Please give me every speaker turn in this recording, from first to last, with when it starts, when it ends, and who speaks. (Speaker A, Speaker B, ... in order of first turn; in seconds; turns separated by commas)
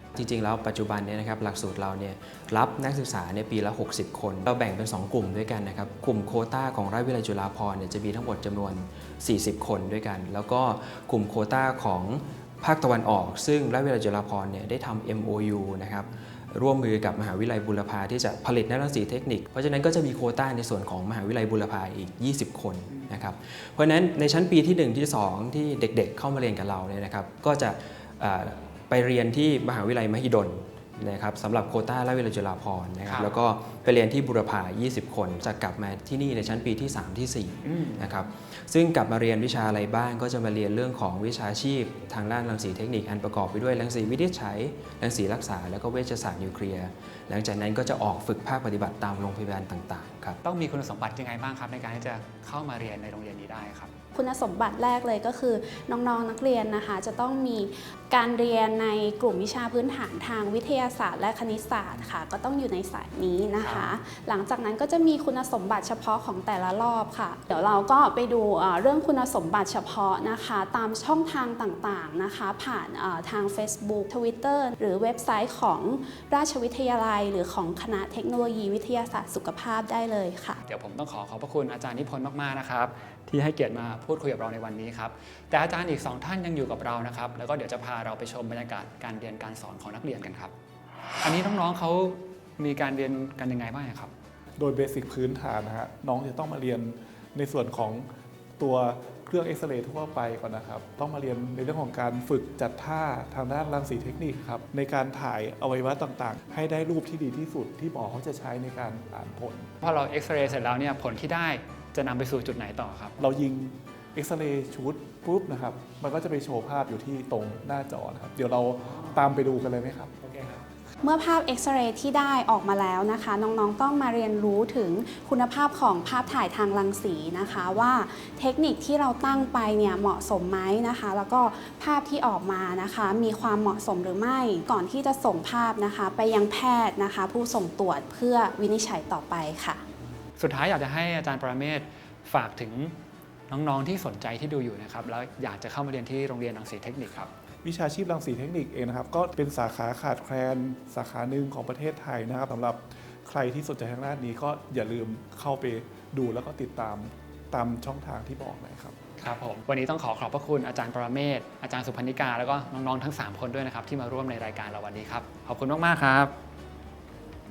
Speaker A: 0.1-50.4, Speaker B: 33.0-33.4, Speaker B: 37.6-38.0, Speaker B: 50.4-53.9, Speaker C: 54.1-80.6, Speaker B: 63.6-63.9, Speaker B: 80.7-90.5, Speaker B: 91.2-94.1, Speaker D: 94.6-98.1, Speaker D: 98.6-109.7, Speaker B: 109.8-113.2, Speaker D: 113.2-120.1, Speaker B: 120.2-120.6, Speaker C: 121.0-139.8, Speaker B: 140.4-142.9, Speaker B: 143.5-147.3, Speaker D: 147.6-159.0, Speaker B: 159.2-166.3